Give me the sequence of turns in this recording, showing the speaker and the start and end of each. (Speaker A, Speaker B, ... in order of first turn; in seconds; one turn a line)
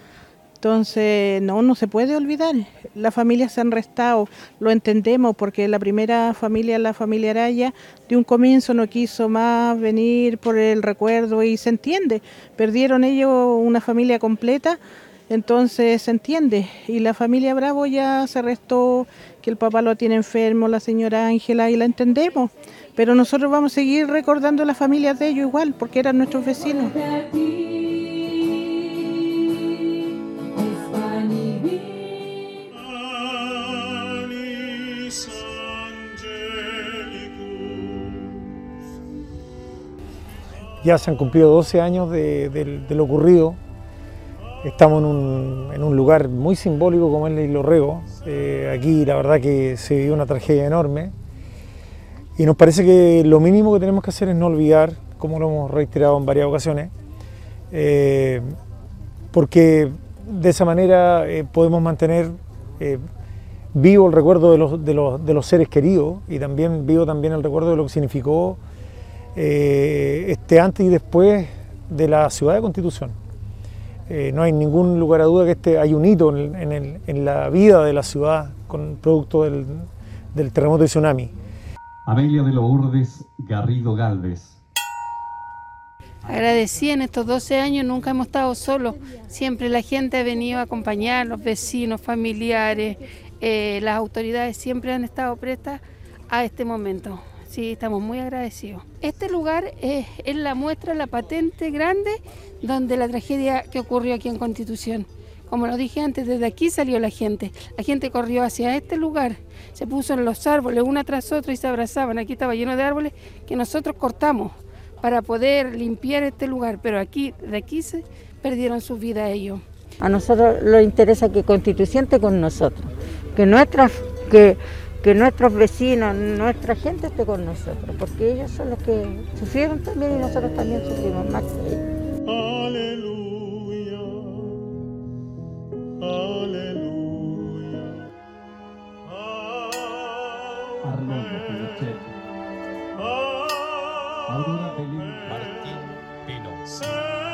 Speaker A: 0.6-26.9
Speaker B: 27.0-28.5
Speaker B: 30.6-32.4
Speaker C: 40.8-43.6
Speaker C: 44.6-51.1
Speaker C: 52.4-56.9
Speaker C: 57.7-58.5
Speaker C: 59.3-63.0
Speaker C: 63.7-68.6
Speaker C: 69.3-73.2
Speaker C: 74.1-81.3
Speaker D: 82.0-84.6
Speaker B: 86.2-119.6
Speaker E: 120.0-131.8
Speaker D: 140.8-142.1
Speaker D: 144.3-147.0